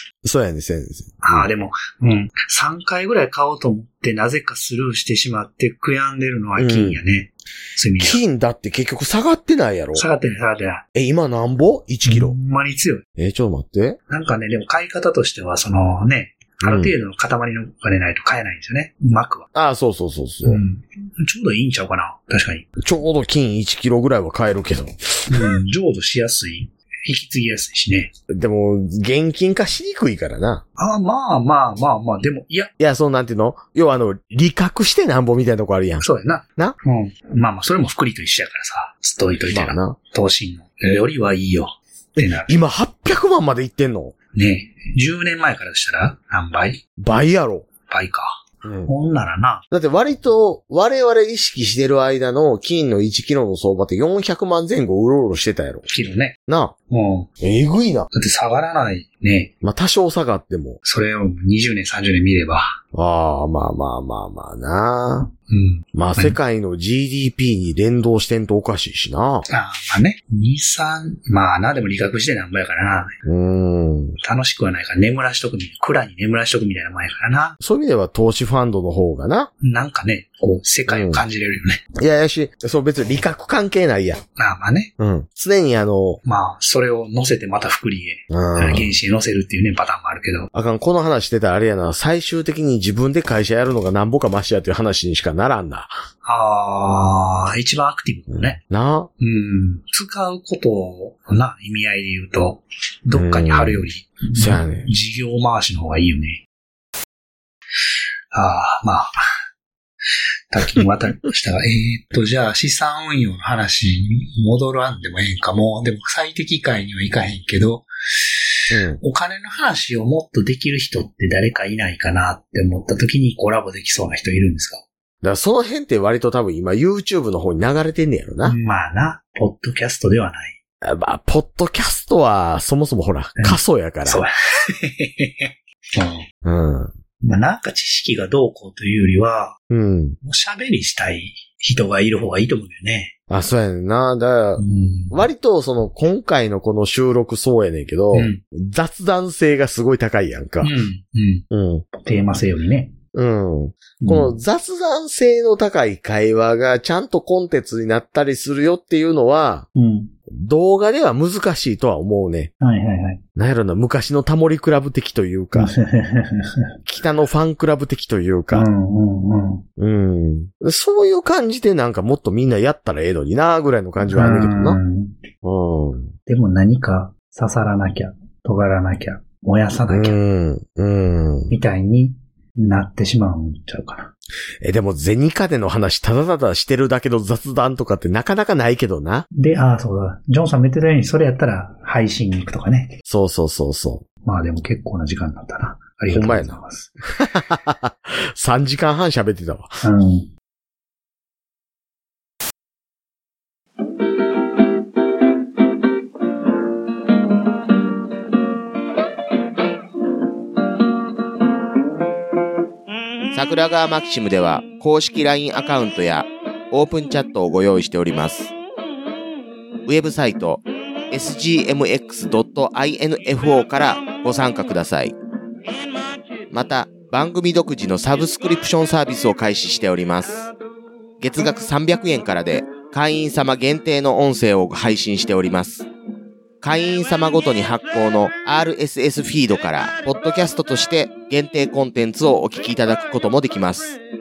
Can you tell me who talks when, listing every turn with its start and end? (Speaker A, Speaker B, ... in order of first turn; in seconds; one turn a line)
Speaker A: 0.2-1.5
Speaker B: 1.2-8.2
Speaker A: 6.6-7.0
Speaker A: 8.0-10.0
Speaker B: 9.9-10.8
Speaker A: 10.9-12.4
Speaker B: 12.0-13.0
Speaker A: 13.2-14.0
Speaker B: 14.1-19.5
Speaker A: 16.6-16.9
Speaker A: 19.5-20.6
Speaker B: 20.4-22.7
Speaker A: 22.8-25.6
Speaker B: 25.3-28.1
Speaker A: 28.3-30.6
Speaker B: 30.8-32.7
Speaker A: 32.8-36.0
Speaker B: 36.0-42.6
Speaker A: 39.5-40.0
Speaker A: 42.1-44.1
Speaker B: 44.3-46.8
Speaker A: 47.0-47.6
Speaker B: 47.9-49.6
Speaker A: 48.6-48.9
Speaker A: 49.7-55.8
Speaker B: 55.9-56.4
Speaker A: 56.5-56.7
Speaker B: 56.9-57.3
Speaker A: 57.4-58.1
Speaker B: 58.1-59.5
Speaker A: 59.6-60.8
Speaker B: 60.8-62.8
Speaker A: 62.9-65.3
Speaker B: 65.5-66.4
Speaker A: 65.9-69.4
Speaker B: 69.5-73.2
Speaker A: 73.2-74.2
Speaker B: 74.2-77.6
Speaker A: 77.6-79.5
Speaker B: 79.6-81.8
Speaker A: 80.9-81.2
Speaker A: 82.0-84.2
Speaker B: 84.4-84.9
Speaker A: 85.0-86.2
Speaker B: 86.2-90.5
Speaker A: 88.3-88.9
Speaker A: 90.5-96.0
Speaker B: 96.2-98.6
Speaker A: 98.3-99.1
Speaker B: 99.2-106.4
Speaker A: 103.1-104.9
Speaker B: 108.3-109.1
Speaker B: 110.5-124.8
Speaker A: 118.7-119.0
Speaker A: 125.2-128.6
Speaker B: 128.4-130.6
Speaker A: 130.8-134.2
Speaker B: 133.4-136.2
Speaker A: 136.4-136.9
Speaker B: 137.2-139.6
Speaker A: 139.7-140.2
Speaker B: 140.2-143.1
Speaker A: 143.3-150.7
Speaker B: 144.6-145.2
Speaker B: 148.1-148.4
Speaker B: 150.6-152.9
Speaker A: 151.5-151.8
Speaker A: 153.1-159.7
Speaker B: 154.0-154.3
Speaker B: 159.7-160.1
Speaker A: 160.3-162.5
Speaker B: 162.6-163.2
Speaker A: 163.3-165.7
Speaker B: 165.6-166.5
Speaker A: 166.8-168.7
Speaker B: 168.5-169.6
Speaker A: 169.8-174.8
Speaker B: 174.1-175.2
Speaker A: 175.4-176.1
Speaker B: 176.2-180.2
Speaker A: 179.9-181.5
Speaker B: 181.5-184.1
Speaker A: 184.6-189.2
Speaker B: 189.3-192.9
Speaker A: 193.1-194.1
Speaker B: 194.2-196.9
Speaker A: 196.1-196.6
Speaker A: 197.1-199.8
Speaker B: 199.8-200.3
Speaker C: 213.3-218.5
Speaker C: 219.8-225.1
Speaker C: 226.5-230.5
Speaker C: 231.2-235.9
Speaker C: 236.6-244.0